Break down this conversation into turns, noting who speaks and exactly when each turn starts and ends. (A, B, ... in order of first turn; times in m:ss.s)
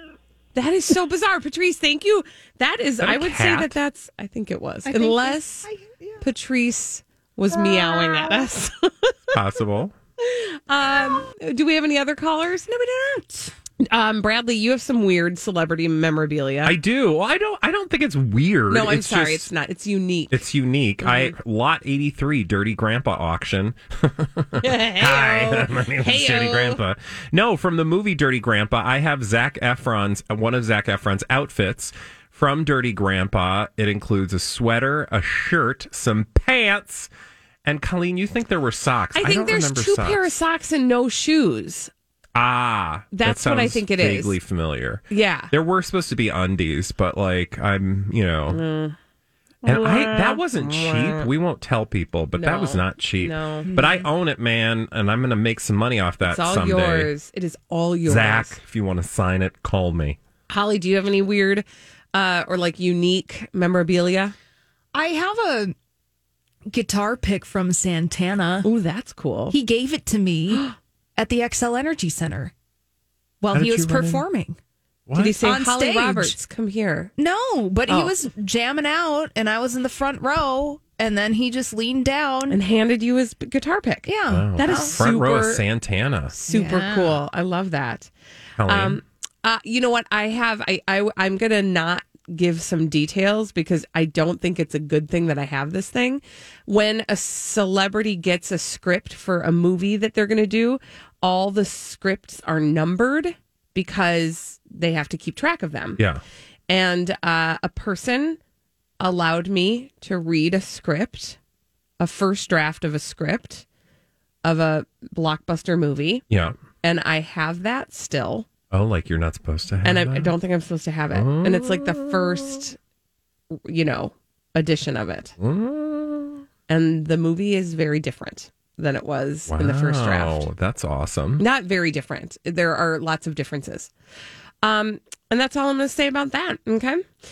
0:00.5-0:05.7 A
0:03.0-0:03.8 B
0:04.8-0:06.2 C
0:06.2-0:09.4 A
0:07.5-0:08.4 C
0:09.3-0:09.9 B
0:10.2-0:12.7 A
0:12.7-0:13.5 C
0:13.8-0:16.8 A
0:16.6-0:19.5 B
0:18.7-0:20.3 A
0:20.3-0:37.1 B
0:21.0-0:21.3 A
0:24.6-0:26.8 A
0:37.6-0:40.3 B
0:39.1-0:41.9 A
0:42.3-0:48.6 B
0:43.1-0:44.4 A
0:45.1-0:45.5 A
0:48.5-0:49.0 A
0:49.6-0:51.3 A
0:49.6-0:57.1 B
0:52.4-0:53.7 A
0:53.6-0:54.0 C
0:56.2-0:58.6 A
0:58.0-1:00.2 B
1:00.5-1:04.3 A
1:04.9-1:05.7 C
1:06.7-1:08.7 C
1:08.6-1:09.6 A
1:09.5-1:12.5 C
1:10.5-1:10.7 A
1:13.4-1:14.6 C
1:13.5-1:14.2 B
1:15.1-1:15.4 B
1:15.2-1:17.1 A
1:15.3-1:16.4 C
1:17.2-1:22.6 C
1:17.9-1:18.1 A
1:22.5-1:25.6 A
1:24.0-1:25.0 C
1:24.3-1:26.3 B
1:26.3-1:28.1 A
1:26.5-1:27.2 C
1:28.6-1:29.0 B
1:28.6-1:46.0 A
1:46.7-1:48.4 A
1:49.0-1:51.4 A
1:52.0-1:53.6 A
1:54.4-1:56.2 A
1:56.3-1:56.6 B
1:56.8-1:58.5 A
1:58.7-2:00.3 B
1:59.8-2:02.8 A
2:01.1-2:02.6 B
2:03.6-2:05.4 A
2:05.4-2:06.4 B
2:06.7-2:10.5 A
2:09.5-2:11.4 B
2:11.4-2:13.9 A
2:14.6-2:17.1 A